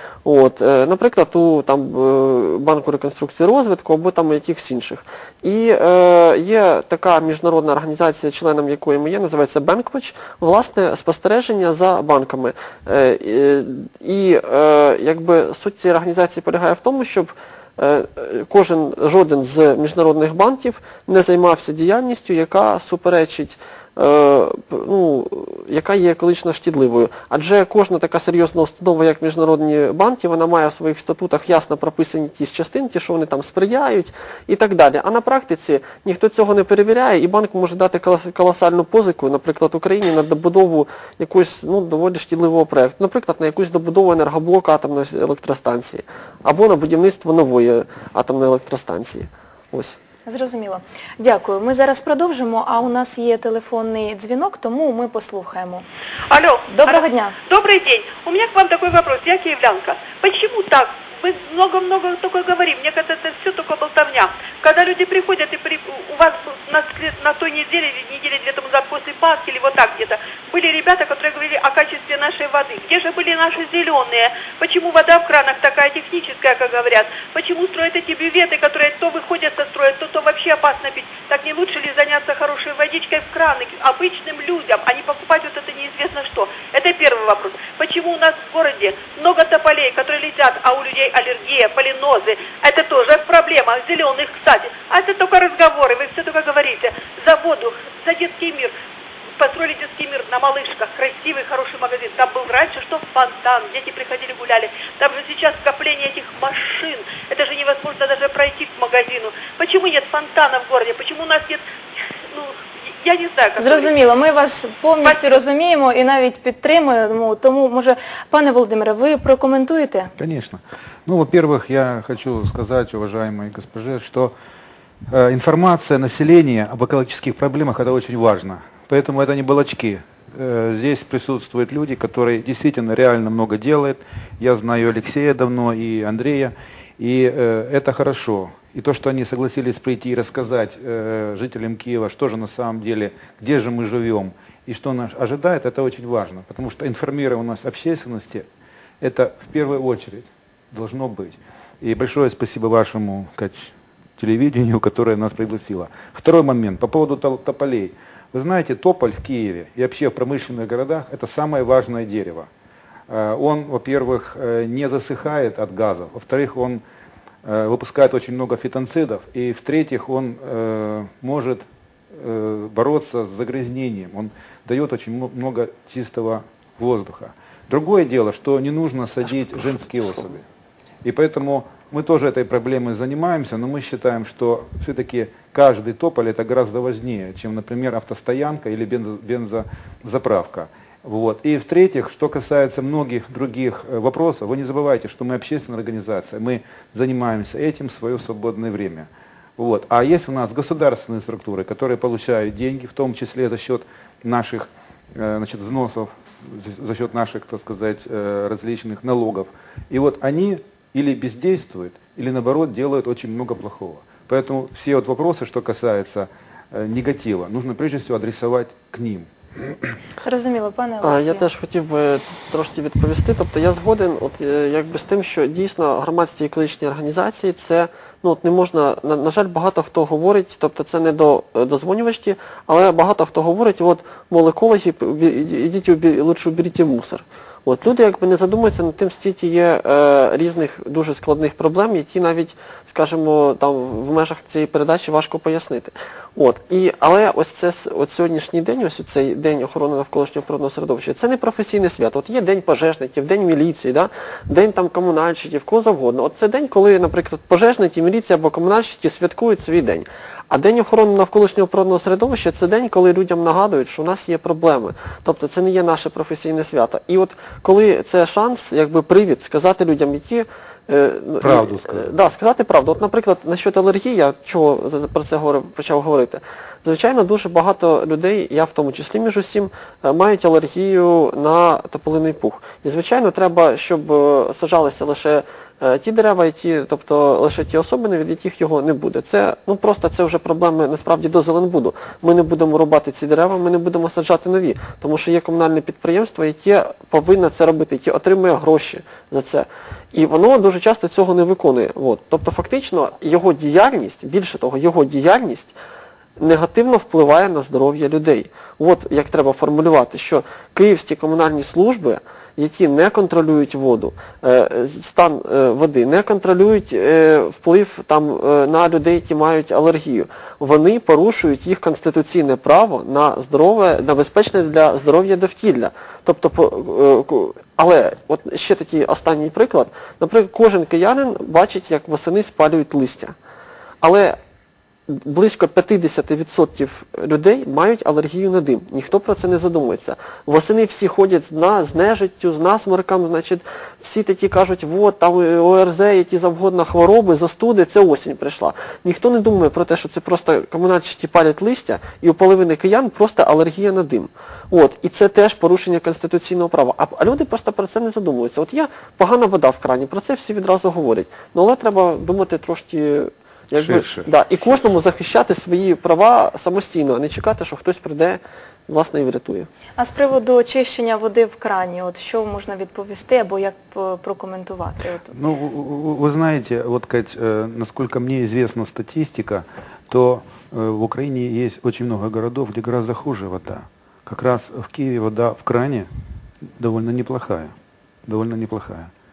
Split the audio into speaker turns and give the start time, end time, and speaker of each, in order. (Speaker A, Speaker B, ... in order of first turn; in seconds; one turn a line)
Speaker A: 0.2-50.0
Speaker B: 50.3-55.9
Speaker C: 56.3-98.7
Speaker B: 56.7-57.3
Speaker C: 99.4-111.6
Speaker C: 112.3-113.9
Speaker B: 113.6-120.1
Speaker C: 115.0-115.4
Speaker D: 120.2-124.3
Speaker D: 125.1-148.4
Speaker D: 149.0-162.5
Speaker D: 163.1-166.8
Speaker D: 167.4-180.4
Speaker A: 179.2-180.4
Speaker D: 181.0-219.3
Speaker B: 220.2-221.5
Speaker A: 221.0-305.8
Speaker D: 271.4-272.1
Speaker A: 306.4-333.4
Speaker A: 334.0-334.4
Speaker A: 335.1-369.7
Speaker D: 363.7-364.3
Speaker B: 370.0-375.3
Speaker D: 375.3-386.1
Speaker D: 386.8-387.7
Speaker D: 388.2-389.1